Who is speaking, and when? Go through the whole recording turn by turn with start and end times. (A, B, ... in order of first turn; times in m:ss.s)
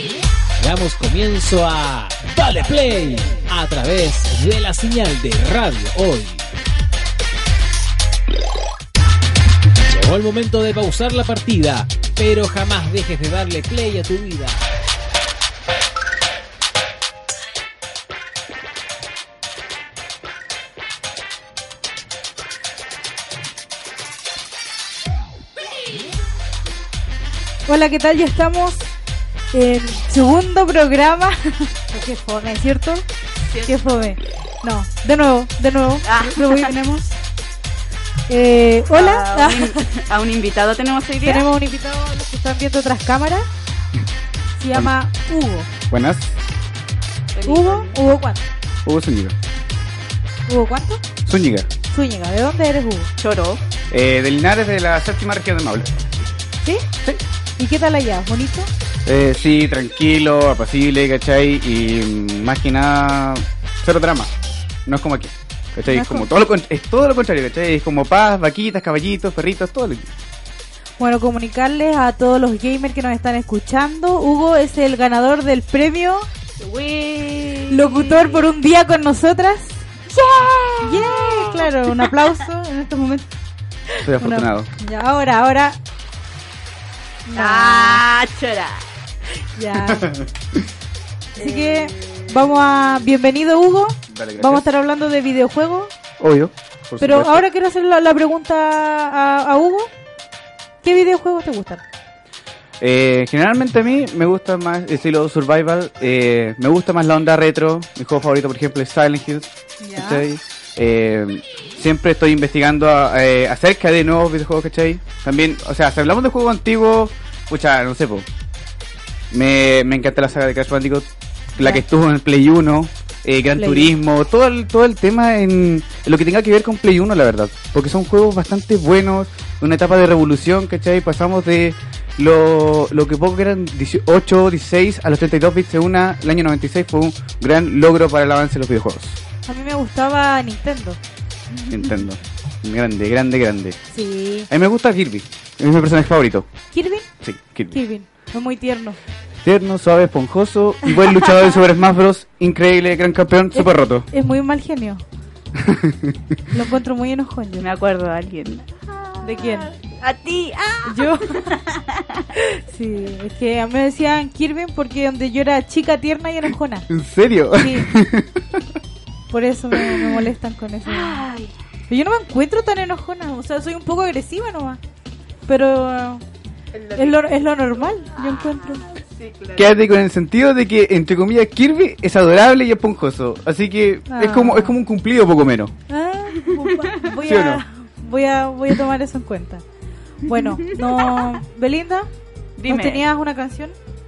0:00.6-0:06.4 A
0:09.9-0:14.6 A
0:27.7-0:28.9 B
0:29.5-0:33.0 B
0:33.4-0:34.1 C
0:33.6-0:37.1 B
0:36.0-0:36.7 C
0:38.3-0:39.9 B
0:38.9-0:41.5 C
0:41.2-0:43.4 B
0:44.6-0:45.7 B
0:45.9-0:46.4 D
0:47.3-0:48.0 C
0:47.4-0:48.4 B
0:48.8-0:49.3 D
0:50.5-0:51.0 B
0:51.2-0:51.7 D
0:51.9-0:53.1 B
0:53.2-0:53.6 C
0:53.9-0:55.9 D
0:57.6-0:58.7 B
0:59.0-1:04.3 D
1:04.8-1:10.1 D
1:05.9-1:06.3 B
1:11.0-1:16.3 B
1:16.6-1:18.5 C
1:17.7-1:19.8 B
1:20.1-1:22.3 C
1:20.8-1:23.3 B
1:23.9-1:25.8 B
1:24.0-1:24.7 D
1:27.2-1:28.0 B
1:27.3-1:28.8 C
1:29.5-1:30.2 B
1:29.8-1:30.6 D
1:31.3-1:35.9 B
1:31.4-1:32.3 C
1:34.1-1:34.6 D
1:36.2-1:37.4 D
1:37.0-1:39.9 B
1:40.8-1:41.8 B
1:42.8-1:58.3 D
1:49.8-1:50.2 B
1:59.3-2:19.2 D
2:01.6-2:01.8 B
2:03.6-2:03.9 B
2:19.5-2:21.0 B
2:21.5-2:22.0 B
2:21.7-2:23.8 D
2:23.9-2:24.5 B
2:24.5-2:26.5 D
2:26.7-2:27.1 B
2:27.2-2:27.8 D
2:27.7-2:29.0 B
2:29.4-2:34.1 D
2:33.5-2:35.0 B
2:35.5-2:36.4 D
2:36.5-2:37.6 B
2:37.6-2:42.2 C
2:39.2-2:39.7 B
2:40.8-2:41.6 B
2:42.3-2:46.9 B
2:46.9-2:48.7 D
2:47.5-2:47.9 B
2:49.3-2:51.2 B
2:50.8-2:51.5 C
2:51.9-2:54.8 B
2:55.5-2:56.2 B
2:56.7-2:59.7 C
2:56.9-2:58.9 B
2:59.6-3:05.7 D
3:04.1-3:04.7 B
3:05.9-3:09.6 B
3:06.4-3:07.0 C
3:07.2-3:07.6 D
3:10.2-3:12.1 B
3:10.3-3:11.4 C
3:12.6-3:13.0 C
3:12.7-3:13.7 B